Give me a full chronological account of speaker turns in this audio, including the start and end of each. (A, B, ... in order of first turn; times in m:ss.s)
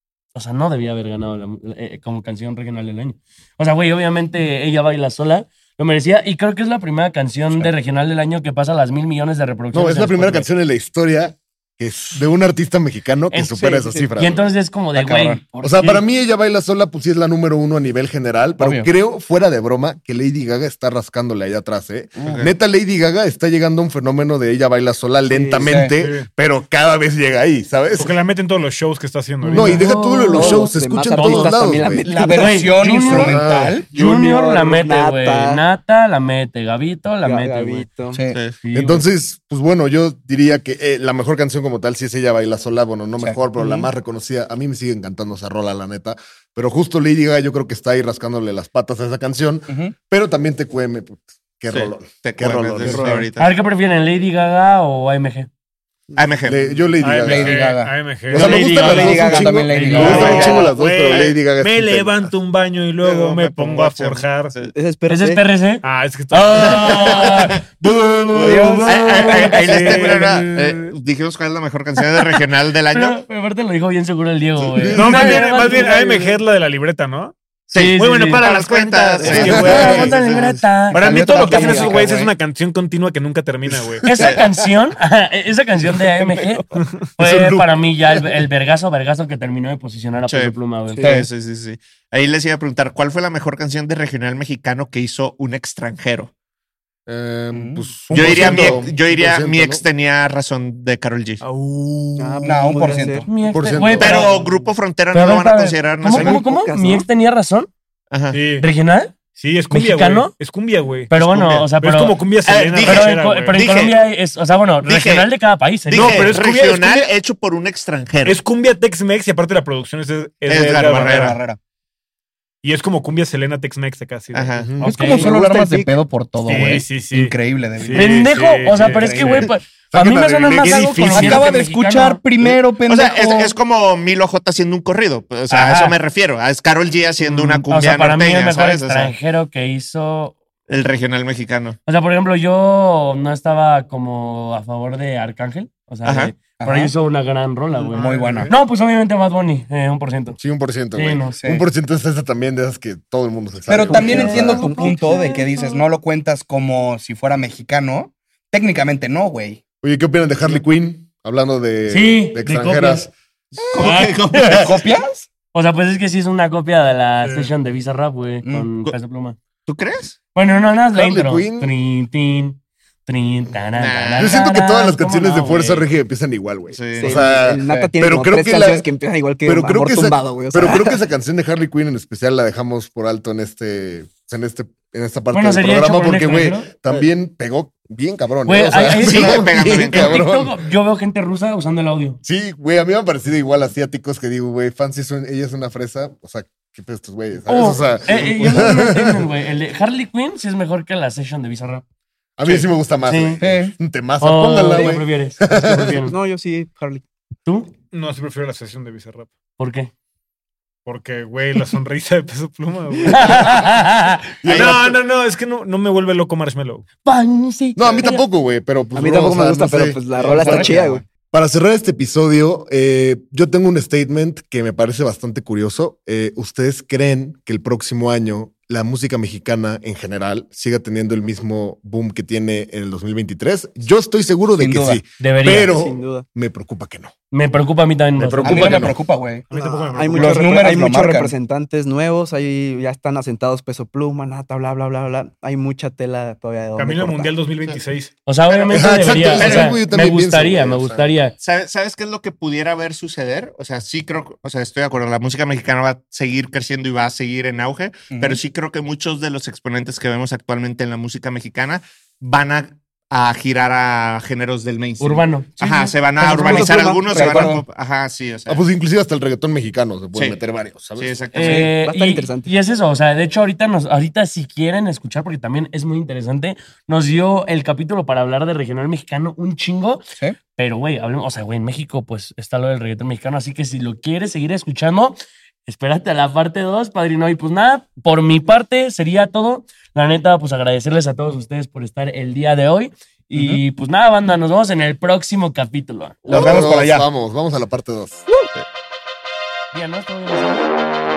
0:00.4-0:10.5 A
0:09.7-0:14.5 B
0:13.4-0:14.1 C
0:14.2-0:16.0 A
0:15.0-0:15.8 D
0:15.6-0:28.2 B
0:18.6-0:18.9 D
0:22.2-0:22.5 E
0:25.3-0:25.8 C
0:25.6-0:25.9 D
0:26.0-0:26.3 F
0:28.0-0:29.8 F
0:29.5-0:29.8 D
0:29.5-0:32.0 B
0:29.5-0:31.6 A
0:29.7-0:33.2 C
0:32.0-0:33.9 D
0:32.2-0:33.4 A
0:33.1-0:33.8 B
0:33.9-0:37.9 A
0:33.9-0:35.6 C
0:37.2-0:38.2 C
0:38.1-0:38.4 D
0:38.3-0:38.6 E
0:38.6-0:39.1 A
0:38.7-0:53.2 B
0:43.2-0:43.6 D
0:49.7-0:50.0 D
0:51.7-0:53.5 E
0:52.9-0:53.2 C
0:53.4-0:55.5 A
0:56.2-0:56.7 E
0:56.4-0:57.7 B
0:57.0-0:59.0 F
0:57.2-0:58.0 D
0:58.3-1:02.3 B
0:58.4-1:00.4 A
0:58.6-1:00.5 C
0:58.9-1:00.5 D
1:00.0-1:04.5 F
1:00.0-1:01.3 E
1:03.0-1:04.7 E
1:04.7-1:05.4 C
1:05.1-1:07.7 A
1:05.8-1:07.3 F
1:06.6-1:07.6 E
1:08.3-1:09.4 D
1:08.4-1:13.2 E
1:08.4-1:10.4 A
1:09.3-1:10.6 F
1:12.9-1:16.4 A
1:14.7-1:15.1 E
1:14.8-1:15.4 B
1:14.9-1:20.2 F
1:17.7-1:20.6 E
1:17.7-1:18.5 A
1:19.2-1:21.9 A
1:19.4-1:20.1 B
1:20.9-1:24.2 F
1:21.0-1:22.3 D
1:21.1-1:22.1 C
1:23.7-1:24.3 B
1:24.1-1:31.0 A
1:24.2-1:24.4 E
1:27.2-1:27.7 B
1:30.3-1:36.3 E
1:31.0-1:31.3 D
1:37.1-1:39.8 B
1:37.5-1:38.9 D
1:38.1-1:41.4 E
1:41.4-1:42.5 F
1:42.2-1:43.3 C
1:42.4-1:43.3 D
1:43.3-1:44.4 A
1:43.5-1:44.3 B
1:44.0-1:46.4 E
1:45.1-1:47.7 A
1:46.1-1:47.1 C
1:48.1-1:48.4 E
1:48.3-1:48.7 F
1:48.6-1:49.2 A
1:49.4-1:51.1 F
1:49.7-1:50.3 A
1:51.1-1:52.2 A
1:51.1-1:51.7 E
1:51.8-1:53.6 F
1:52.5-1:54.0 E
1:52.8-1:56.4 A
1:54.8-1:55.3 E
1:55.9-1:58.4 E
1:55.9-1:57.1 F
1:58.2-2:01.4 F
2:00.5-2:01.4 E
2:01.1-2:01.6 D
2:02.6-2:04.5 F
2:04.3-2:04.8 E
2:04.6-2:04.9 B
2:04.8-2:05.3 A
2:04.8-2:08.3 D
2:05.0-2:06.0 C
2:06.4-2:09.5 F
2:06.5-2:06.8 C
2:07.9-2:12.2 A
2:08.8-2:09.5 D
2:09.9-2:11.5 B
2:10.7-2:13.6 D
2:11.1-2:11.4 F
2:12.9-2:19.2 E
2:15.5-2:16.0 A
2:17.2-2:17.6 F
2:17.7-2:20.4 A
2:20.7-2:21.8 E
2:21.9-2:30.4 A
2:26.0-2:26.4 E
2:26.6-2:26.9 D
2:27.9-2:28.5 D
2:27.9-2:28.5 F
2:30.4-2:34.7 B
2:30.9-2:31.4 A
2:31.4-2:31.6 D
2:33.7-2:39.6 D
2:33.9-2:35.8 A
2:33.9-2:35.2 C
2:39.8-2:43.1 B
2:41.9-2:43.1 A
2:43.7-2:45.3 D
2:43.8-2:44.6 E
2:43.8-2:44.8 A
2:45.5-2:49.4 A
2:47.2-2:47.5 F
2:49.7-2:50.2 E
2:50.4-2:55.9 A
2:50.9-2:51.7 B
2:53.8-2:54.4 E
2:54.2-2:58.9 B
2:56.7-2:57.2 E
2:57.0-3:01.0 C
2:59.4-3:10.6 B
3:05.3-3:06.7 A
3:08.5-3:12.2 A
3:09.0-3:10.2 E
3:12.2-3:19.3 B
3:17.5-3:21.8 A
3:22.4-3:26.1 B
3:23.0-3:23.4 A
3:23.4-3:23.8 D
3:24.2-3:26.2 A
3:24.7-3:25.0 C
3:26.0-3:27.0 C
3:27.5-3:27.7 A
3:27.9-3:29.3 F
3:29.6-3:29.9 A
3:30.9-3:33.6 F
3:33.1-3:34.3 A
3:34.4-3:34.9 B
3:34.4-3:34.8 E
3:34.5-3:36.9 F
3:37.0-3:38.2 A
3:37.8-3:57.1 B
3:39.0-3:41.0 C
3:40.3-3:41.0 D
3:54.6-3:55.0 D
3:55.2-3:55.7 A
3:55.5-3:56.2 C
3:57.3-3:58.9 A
3:58.2-3:59.0 B
3:58.4-3:59.5 D
3:59.5-4:00.8 F
3:59.5-4:07.3 C
4:00.1-4:01.3 D
4:06.8-4:08.1 F
4:08.3-4:11.3 A
4:08.7-4:11.1 B
4:09.4-4:09.8 E
4:11.4-4:28.6 E
4:18.1-4:18.4 D
4:25.0-4:26.7 A
4:26.2-4:27.6 C
4:26.3-4:27.6 D
4:28.5-4:31.3 B
4:31.0-4:31.7 E
4:31.3-4:56.3 A
4:31.5-4:32.5 C
4:53.3-4:53.6 D
4:56.3-4:58.3 B
4:56.3-4:57.1 D
4:59.7-5:00.7 A